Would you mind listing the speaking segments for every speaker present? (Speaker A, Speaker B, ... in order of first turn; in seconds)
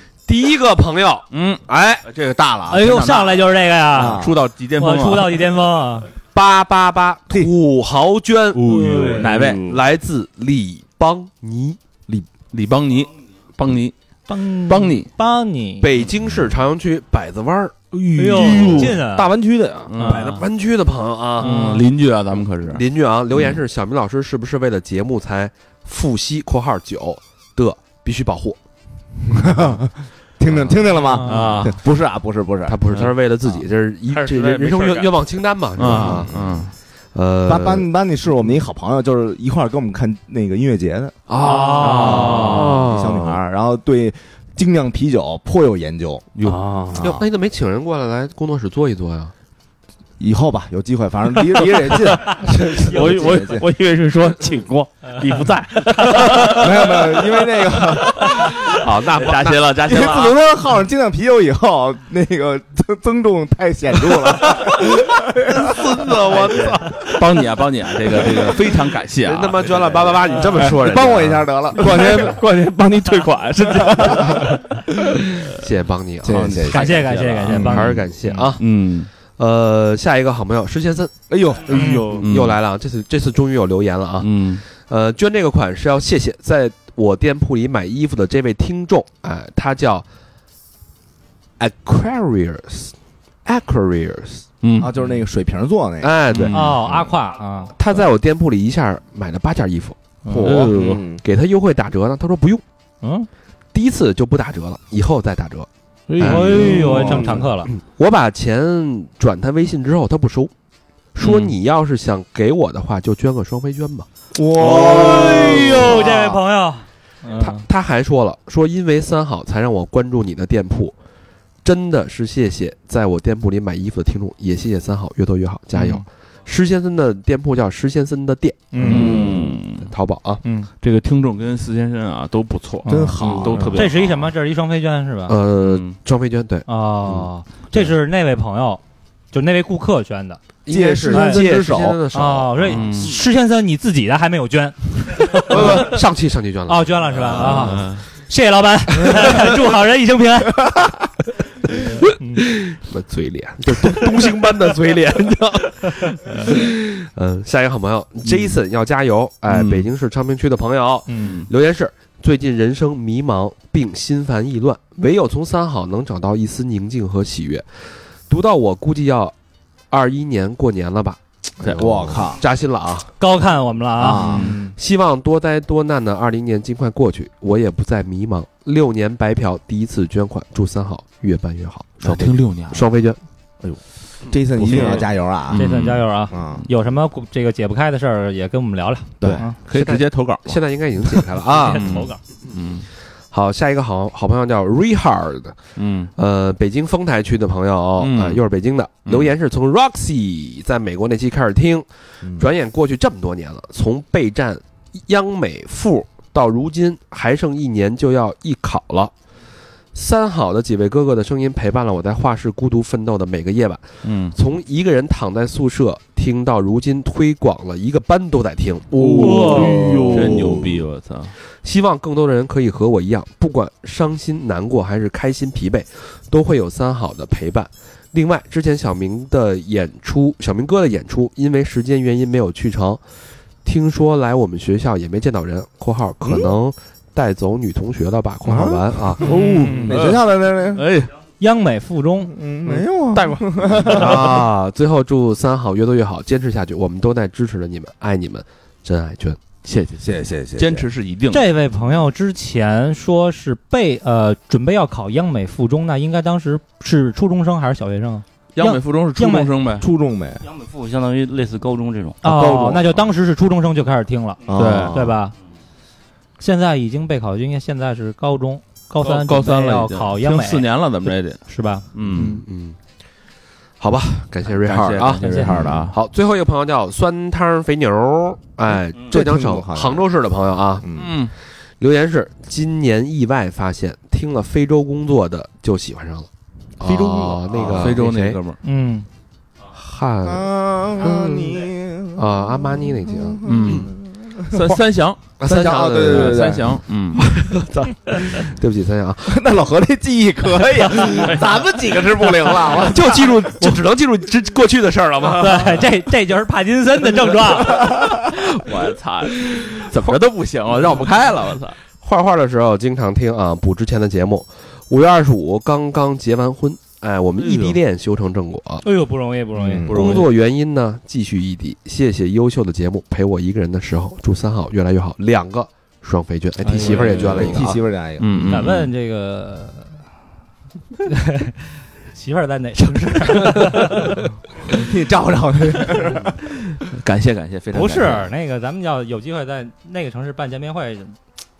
Speaker A: 0.3-2.0, 6.3-11.8, 15.8-17.8, 18.5-18.8, 19.9-21.5, 22.7-28.6, 32.6-36.3, 37.1-37.9, 41.3-43.4, 46.9-49.3, 58.4-59.7, 69.2-71.7, 75.6-76.6, 77.7-78.6, 79.3-90.1, 91.6-92.9, 93.5-94.5, 96.0-96.7, 97.7-102.6, 103.7-106.8, 107.7-110.5, 111.2-114.1, 117.4-120.9, 121.6-130.4, 135.3-137.3, 140.7-143.1, 145.4-147.9, 152.3-169.3, 169.9-173.1, 174.8-183.2, 184.6-185.1, 189.7-192.0, 193.3-195.6, 196.2-209.1, 209.9-220.7, 221.6-233.0, 233.6-239.3, 243.8-249.4, 272.1-272.8, 273.8-281.1, 281.8-286.3, 286.8-288.4, 289.7-293.9, 295.4-296.6, 297.1-299.4, 301.9-305.8, 312.0-318.9, 319.9-327.8
Speaker B: 1.3-3.6, 4.1-5.4, 8.5-9.8, 12.5-13.9, 14.7-15.1, 18.0-19.0, 19.9-20.4, 21.4-22.8, 31.2-31.8, 35.8-36.7, 41.8-42.8, 46.4-46.8, 59.1-60.4, 66.4-69.8, 76.2-79.1, 82.2-82.6, 84.2-84.6, 94.6-94.9, 96.3-96.8, 100.2-101.0, 106.1-107.3, 111.2-111.5, 128.8-129.9, 130.8-134.3, 135.6-135.9, 142.7-143.2, 145.6-145.8, 147.2-148.1, 159.5-159.8, 171.6-172.2, 174.3-174.5, 182.0-182.8, 184.5-186.0, 189.3-190.6, 191.1-192.9, 195.8-196.1, 198.0-198.4, 214.0-214.3, 219.0-221.3, 239.2-241.1, 249.7-251.4, 258.6-259.9, 264.5-265.1, 269.0-271.4, 271.9-272.4, 274.5-276.0, 280.9-281.3, 286.9-288.6, 293.4-293.9, 294.5-295.4, 295.9-297.2, 301.2-301.7, 307.9-311.8, 317.4-317.8, 319.9-320.2, 326.7-328.9, 336.9-338.3
Speaker C: 2.7-6.1, 8.7-9.3, 14.3-15.9, 18.1-19.3, 21.4-21.8, 30.9-31.4, 41.4-42.6, 76.7-78.0, 81.7-82.0, 96.5-97.7, 103.0-103.3, 106.2-107.7, 114.6-117.6, 125.7-126.0, 128.7-129.2, 130.4-130.7, 133.7-135.4, 136.7-138.8, 139.3-140.4, 141.1-141.4, 142.1-145.9, 146.7-150.7, 151.7-152.5, 161.1-161.4, 173.2-174.8, 185.5-189.6, 191.5-192.2, 219.2-219.9, 239.2-240.0, 241.4-242.7, 251.3-259.5, 262.2-265.4, 266.4-271.9, 275.2-275.6, 288.6-289.1, 305.3-307.9, 318.8-320.2, 328.5-329.9, 331.1-334.2, 337.7-341.2
Speaker D: 3.9-4.4, 29.3-32.8, 35.9-36.7, 37.5-47.2, 50.2-53.6, 56.1-58.1, 59.9-66.5, 70.6-72.4, 73.6-74.2, 76.2-77.9, 81.3-82.2, 94.8-96.2, 114.3-116.4, 128.8-129.5, 132.9-133.8, 140.7-142.0, 171.8-172.4, 174.0-174.5, 183.6-185.6, 186.3-186.6, 189.2-189.5, 220.1-220.4, 238.4-240.9, 242.3-244.5, 250.0-250.9, 259.8-260.4, 262.2-262.8, 264.5-265.1, 272.1-272.4, 275.5-275.8, 279.1-280.1, 280.8-281.1, 290.2-292.3, 293.1-294.8, 295.4-296.8, 299.3-303.1, 319.6-320.1, 326.7-328.6, 334.7-336.4
Speaker E: 18.3-19.9, 34.1-35.2, 46.5-46.9, 52.1-57.4, 65.9-67.0, 71.8-74.6, 81.7-82.2, 100.5-101.2, 106.8-107.4, 243.1-244.3, 302.4-302.9
Speaker F: 100.4-101.0, 260.4-262.2